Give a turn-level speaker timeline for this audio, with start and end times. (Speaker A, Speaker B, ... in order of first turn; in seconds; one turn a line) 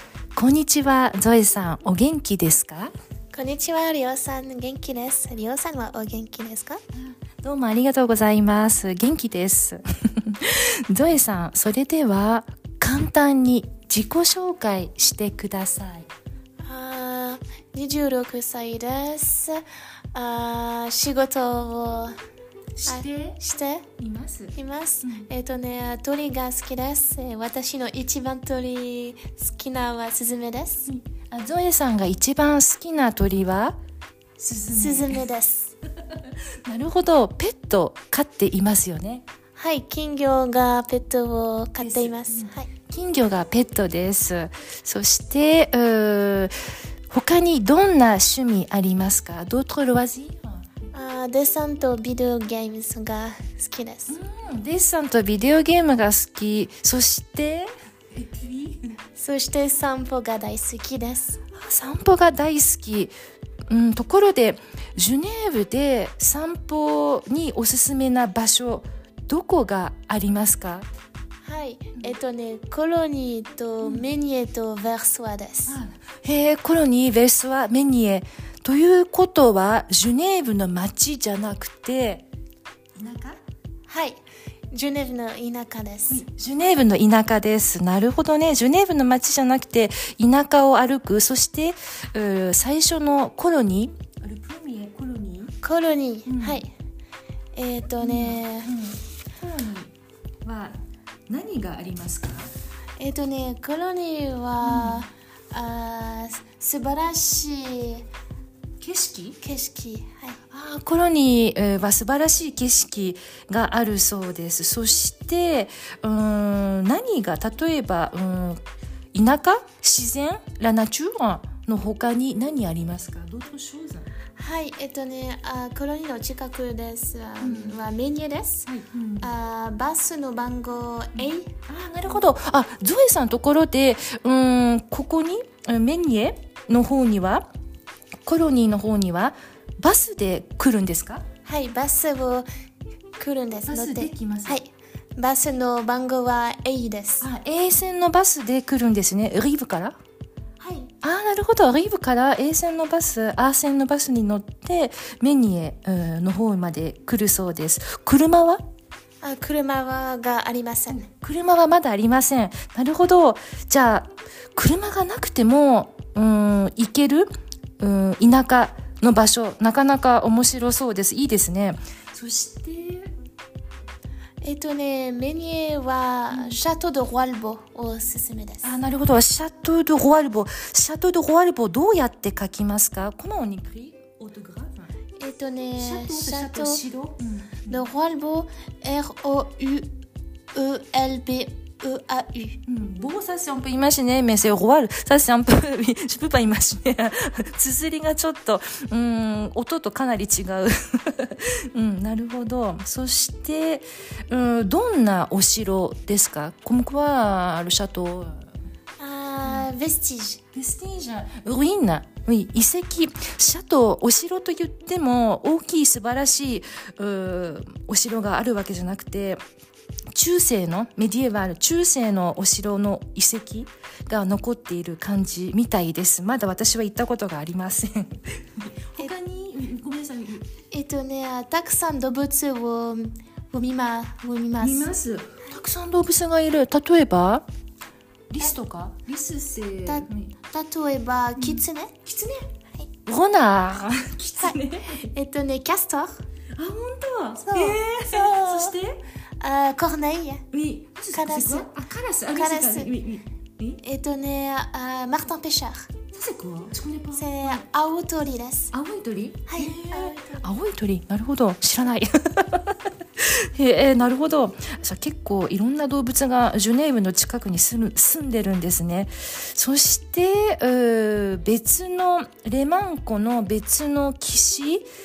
Speaker A: 0.3-2.9
Speaker B: 3.3-6.8
Speaker A: 6.9-16.1
Speaker B: 16.6-22.1
Speaker A: 22.8-23.4
Speaker B: 22.9-23.9
Speaker A: 24.0-25.3
Speaker B: 24.5-30.9
Speaker A: 30.9-33.8
Speaker A: 34.4-35.2
Speaker B: 34.7-35.7
Speaker A: 36.1-39.2
Speaker B: 39.5-42.7
Speaker A: 41.8-46.5
Speaker A: 47.1-50.8
Speaker B: 50.9-54.1
Speaker A: 54.1-59.0
Speaker B: 59.1-61.4
Speaker A: 61.5-63.1
Speaker A: 63.7-70.9
Speaker B: 71.4-75.8
Speaker A: 73.8-74.1
Speaker A: 75.7-82.2
Speaker A: 83.0-83.4
Speaker B: 83.9-84.2
Speaker B: 84.7-86.2
Speaker A: 86.1-95.5
Speaker B: 95.6-96.7
Speaker A: 96.3-96.6
Speaker B: 97.5-98.7
Speaker A: 98.0-99.9
Speaker A: 100.4-100.8
Speaker A: 101.3-102.5
Speaker B: 103.0-108.0
Speaker A: 104.6-105.0
Speaker A: 108.8-109.4
Speaker B: 109.4-110.4
Speaker A: 110.5-118.6
Speaker A: 119.1-124.1
Speaker B: 124.3-128.7
Speaker A: 127.4-127.8
Speaker A: 128.7-129.3
Speaker B: 129.2-131.5
Speaker A: 131.2-137.5
Speaker A: 138.2-141.2
Speaker B: 141.4-142.5
Speaker B: 143.2-147.3
Speaker A: 143.7-144.6
Speaker A: 147.2-149.9
Speaker B: 150.6-150.9
Speaker A: 151.0-158.6
Speaker B: 159.2-161.0
Speaker A: 160.9-167.3
Speaker A: 167.8-173.1
Speaker B: 174.4-178.7
Speaker A: 176.3-176.6
Speaker A: 178.6-184.9
Speaker B: 185.2-186.8
Speaker A: 185.8-187.8
Speaker B: 187.7-189.9
Speaker B: 190.5-192.6
Speaker A: 192.7-208.5
Speaker B: 209.0-210.4
Speaker A: 210.5-219.4
Speaker A: 220.1-230.5
Speaker B: 230.7-234.9
Speaker A: 234.6-237.4
Speaker A: 238.3-240.3
Speaker B: 239.8-241.9
Speaker A: 241.4-242.5
Speaker A: 243.1-245.1
Speaker B: 244.4-246.2
Speaker A: 246.5-249.0
Speaker B: 247.4-248.8
Speaker B: 249.4-250.4
Speaker A: 250.5-253.8
Speaker B: 251.1-251.7
Speaker B: 252.3-252.9
Speaker B: 253.8-255.9
Speaker A: 256.1-257.6
Speaker B: 257.1-258.7
Speaker A: 258.7-274.9
Speaker B: 259.5-260.5